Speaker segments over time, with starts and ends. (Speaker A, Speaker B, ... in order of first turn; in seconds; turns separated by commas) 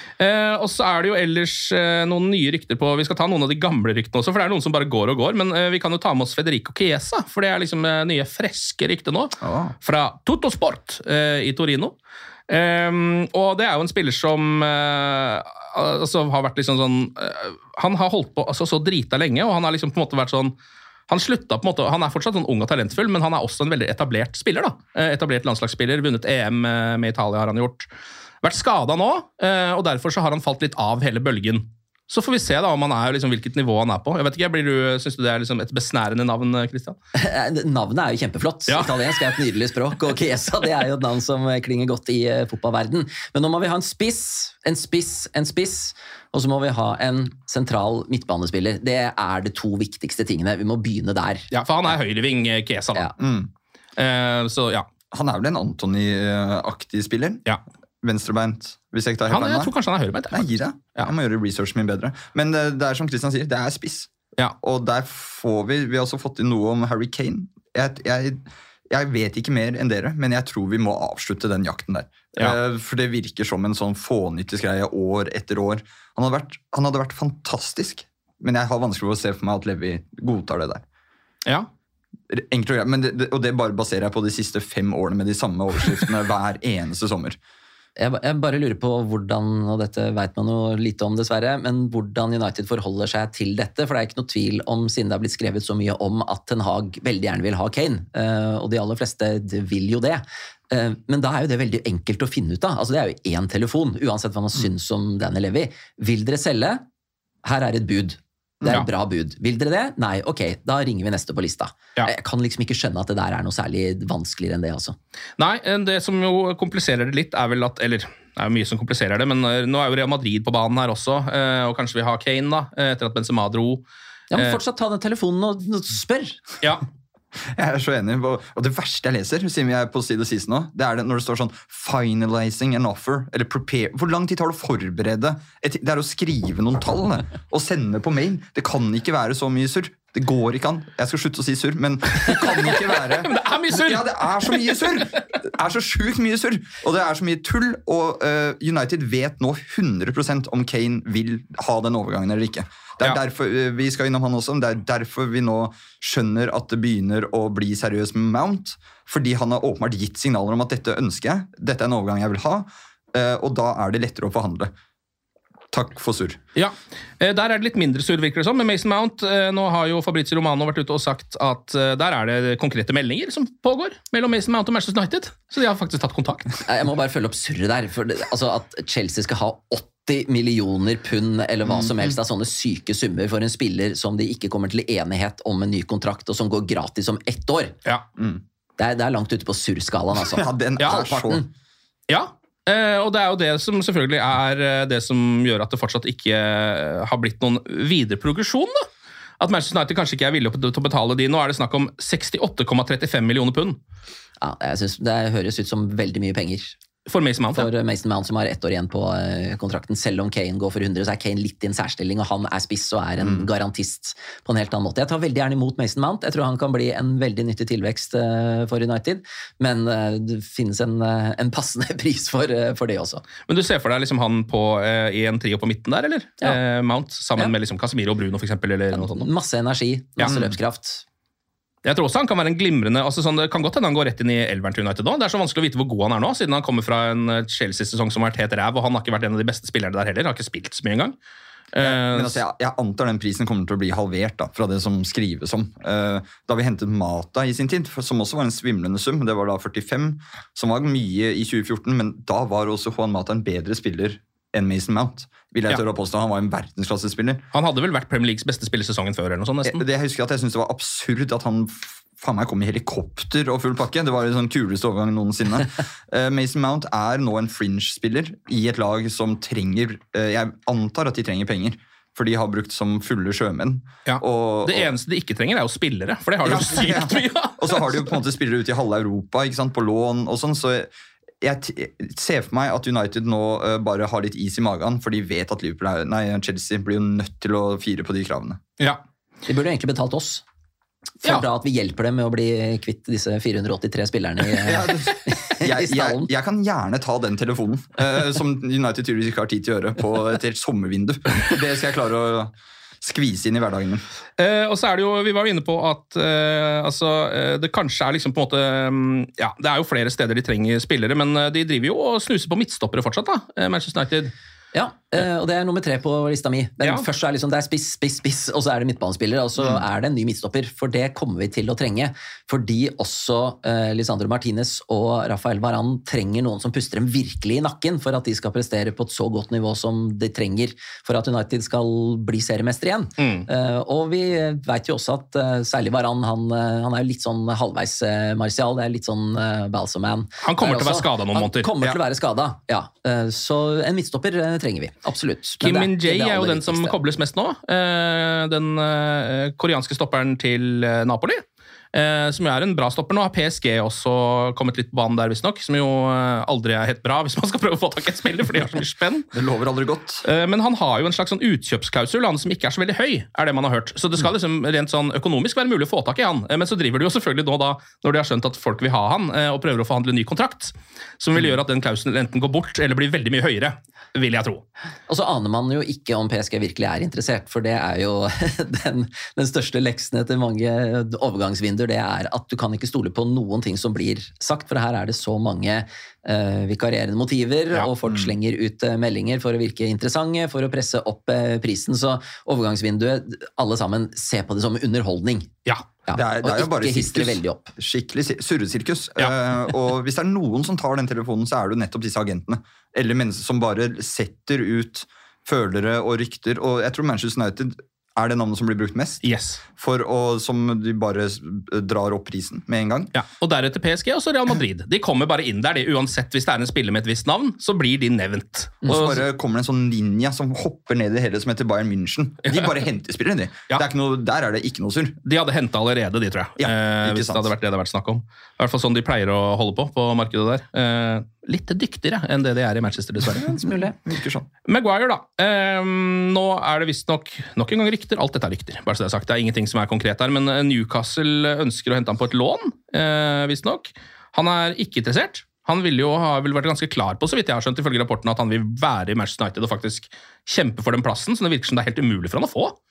Speaker A: 0.2-11.9, Speaker B: 9.4-9.7, Speaker A: 12.5-20.5, Speaker A: 21.1-27.9, Speaker A: 28.4-37.0, Speaker C: 37.1-51.5, Speaker A: 38.7-39.4, Speaker A: 51.5-53.1, Speaker B: 53.2-53.5, Speaker A: 54.0-54.9, Speaker B: 55.1-57.4, Speaker B: 58.0-59.7, Speaker A: 59.3-61.1, Speaker B: 60.3-64.1, Speaker B: 64.6-80.8, Speaker B: 82.3-87.4, Speaker C: 88.0-106.8, Speaker C: 107.4-115.0, Speaker A: 115.4-124.6, Speaker C: 124.3-126.4, Speaker B: 127.4-164.7, Speaker A: 142.2-145.2, Speaker B: 165.7-166.4, Speaker A: 166.6-176.5, Speaker C: 176.7-187.7, Speaker B: 181.6-182.1, Speaker B: 188.2-188.4, Speaker C: 188.8-191.4, Speaker B: 190.2-191.5, Speaker A: 192.1-198.9, Speaker A: 199.4-203.8, Speaker C: 204.4-206.8, Speaker A: 207.1-207.7, Speaker C: 207.5-223.2, Speaker B: 213.2-213.5, Speaker A: 223.4-229.3, Speaker C: 228.9-231.0, Speaker B: 230.2-230.5, Speaker A: 231.8-241.2, Speaker A: 241.7-242.4, Speaker B: 241.8-257.4, Speaker A: 257.5-259.8, Speaker B: 259.6-274.9, Speaker A: 274.1-278.1, Speaker B: 276.4-288.6, Speaker C: 289.5-290.4, Speaker C: 291.2-296.3, Speaker B: 294.6-304.0, Speaker A: 304.4-314.3, Speaker C: 314.7-347.0, Speaker A: 333.2-333.5, Speaker A: 340.4-341.7, Speaker A: 345.6-359.3, Speaker B: 359.3-360.2, Speaker A: 360.2-374.6, Speaker C: 375.1-395.5, Speaker C: 396.1-397.7, Speaker B: 396.1-409.2, Speaker A: 409.2-409.6, Speaker B: 409.8-413.1, Speaker A: 413.1-419.2, Speaker B: 418.9-425.2, Speaker A: 422.4-422.7, Speaker A: 425.2-433.6, Speaker B: 426.6-427.5, Speaker C: 433.5-433.9, Speaker B: 433.9-434.5, Speaker A: 434.6-452.8